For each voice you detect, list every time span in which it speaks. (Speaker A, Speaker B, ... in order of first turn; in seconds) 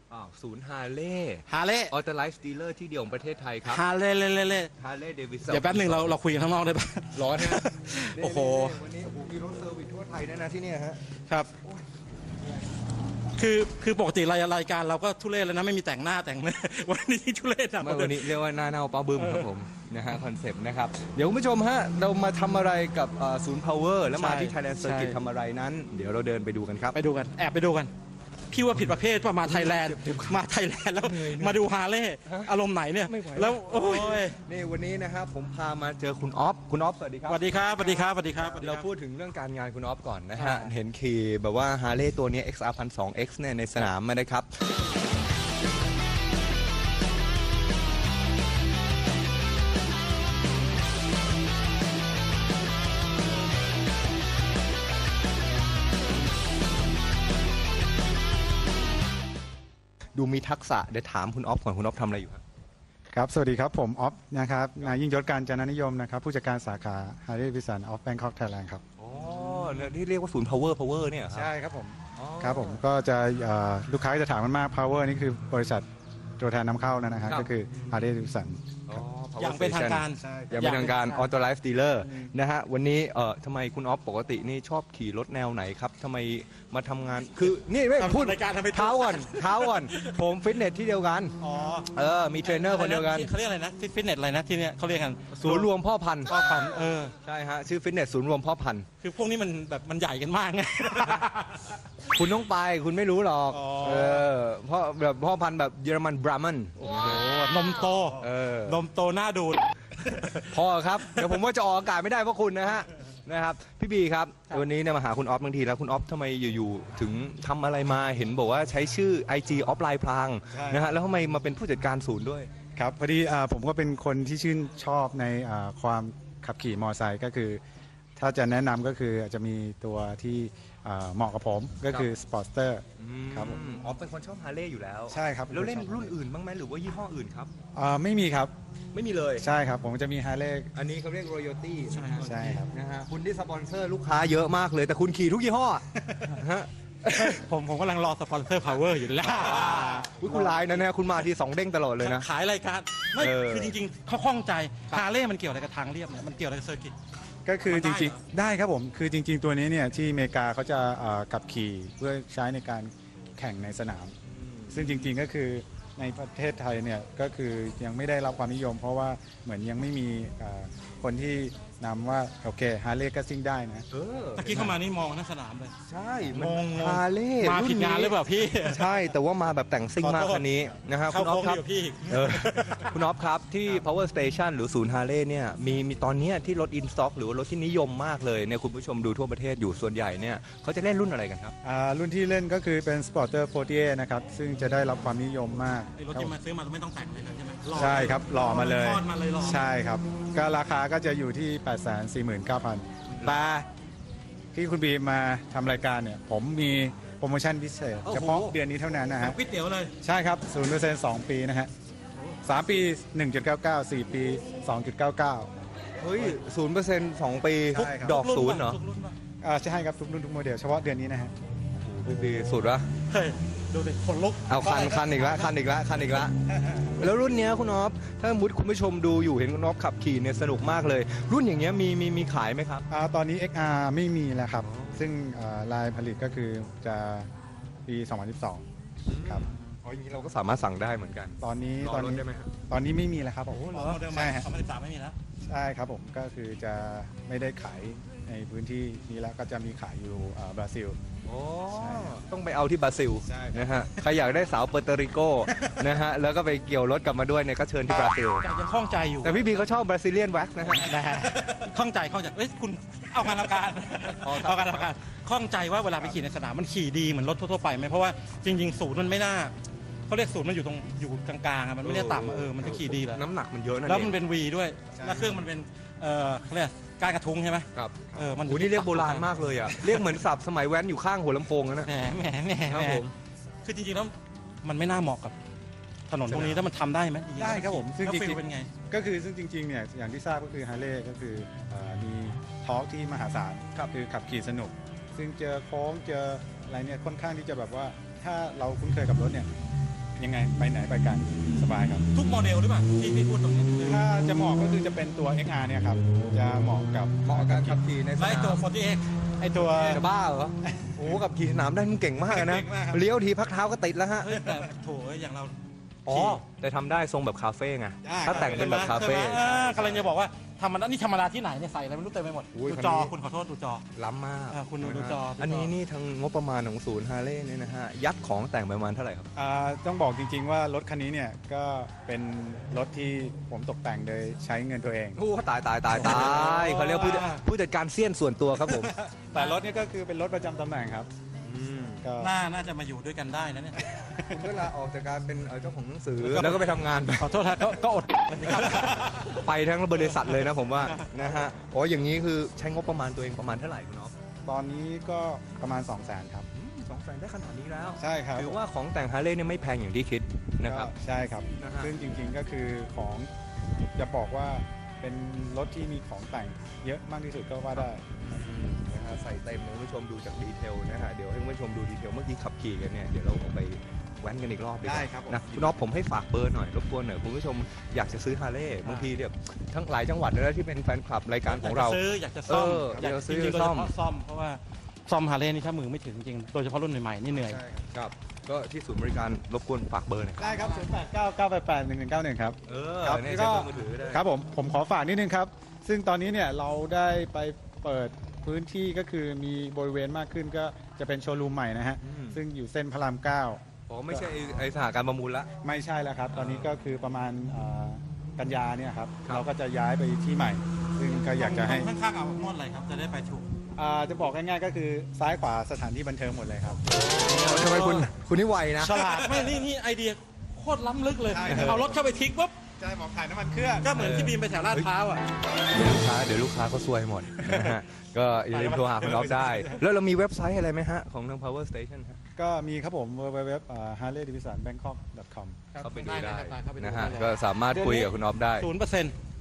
Speaker A: 0.1-3.8, 4.8-6.2, 7.1-11.0, 17.8-27.0, 29.4-30.4, 31.0-31.6, 32.2-32.5, 33.0-44.5, 60.1-62.4, 69.0-71.5, 72.2-72.8, 78.9-91.3, 91.9-93.3, 95.3-96.5, 97.2-98.8, 102.1-107.2, 108.2-108.8, 110.5-122.5, 133.0-137.5, 138.9-139.4, 140.7-147.4, 149.4-152.3, 153.2-153.7, 164.3-165.1, 173.9-174.8, 175.9-191.5, 208.0-208.6, 216.0-218.8, 221.8-222.9, 224.5-226.3, 226.9-232.8, 234.6-235.1, 239.1-242.5, 251.2-258.5, 259.2-261.0, 264.2-264.9, 271.8-274.1, 277.7-281.9, 282.7-283.1, 307.2-308.6, 309.5-314.4, 316.1-319.4, 322.5-323.1, 323.9-329.3, 335.1-338.9, 341.4-342.0, 344.2-347.4, 348.4-354.1, 356.5-360.9, 361.6-361.9, 367.8-383.9, 387.9-390.5, 392.6-394.2, 402.0-402.4, 403.9-405.5, 406.3-406.7, 416.9-419.0, 421.5-421.8, 423.9-424.9, 425.7-432.2, 435.8-438.7
Speaker B: 1.5-1.9, 3.6-4.7, 5.5-8.8, 11.3-11.5, 13.3-18.3, 19.2-19.5, 24.1-25.2, 26.9-27.9, 28.5-34.4, 37.2-38.9, 40.4-40.7, 79.4-81.3, 82.0-82.3, 88.0-90.2, 91.4-91.9, 92.4-95.7, 96.2-97.1, 99.0-101.7, 103.5-104.1, 107.0-111.3, 141.9-142.6, 147.1-150.8, 152.0-156.9, 157.6-158.2, 174.4-175.7, 176.3-178.8, 180.0-180.4, 181.1-182.9, 195.9-199.7, 209.2-209.9, 217.7-219.2, 222.1-222.4, 223.1-225.5, 243.5-245.1, 258.4-259.4, 260.7-269.5, 270.1-273.2, 273.8-280.1, 281.8-283.1, 283.6-285.3, 286.1-288.7, 302.1-304.0, 308.2-310.0, 314.2-315.6, 316.1-316.4, 318.3-323.8, 324.5-325.7, 335.9-337.4, 342.2-344.3, 346.2-349.4, 350.1-351.1, 378.8-379.1, 381.5-387.6, 390.4-390.9, 411.4-413.4, 417.4-418.1, 418.8-422.5, 423.8-425.2, 428.5-429.8, 435.8-439.1
Speaker C: 63.1-68.8, 71.3-75.8, 76.4-78.8, 80.2-80.5, 103.7-104.2, 120.5-120.9, 122.8-127.6, 128.2-133.6, 135.1-136.2, 137.7-138.5, 139.4-140.7, 142.2-142.7, 157.4-164.2, 164.7-173.8, 191.6-196.3, 197.7-203.7, 204.5-209.4, 210.0-211.7, 212.4-215.5, 217.7-218.2, 219.4-221.3, 232.9-237.3, 237.9-238.6, 241.4-244.5, 245.5-251.0, 251.7-252.2, 253.2-253.8, 274.9-275.4, 286.3-286.6, 287.4-299.5, 300.2-302.1, 303.8-307.8, 310.6-311.2, 312.2-313.0, 316.1-316.4, 318.0-320.1, 324.8-325.2, 329.3-335.2, 339.1-341.1, 342.0-342.3, 351.1-351.4, 354.4-356.5, 358.0-358.6, 360.6-363.3, 363.9-368.2, 374.8-375.5, 387.4-387.9, 390.4-404.7, 405.6-411.9, 413.8-416.8, 418.9-419.6, 421.3-422.0, 422.8-424.0, 432.4-435.8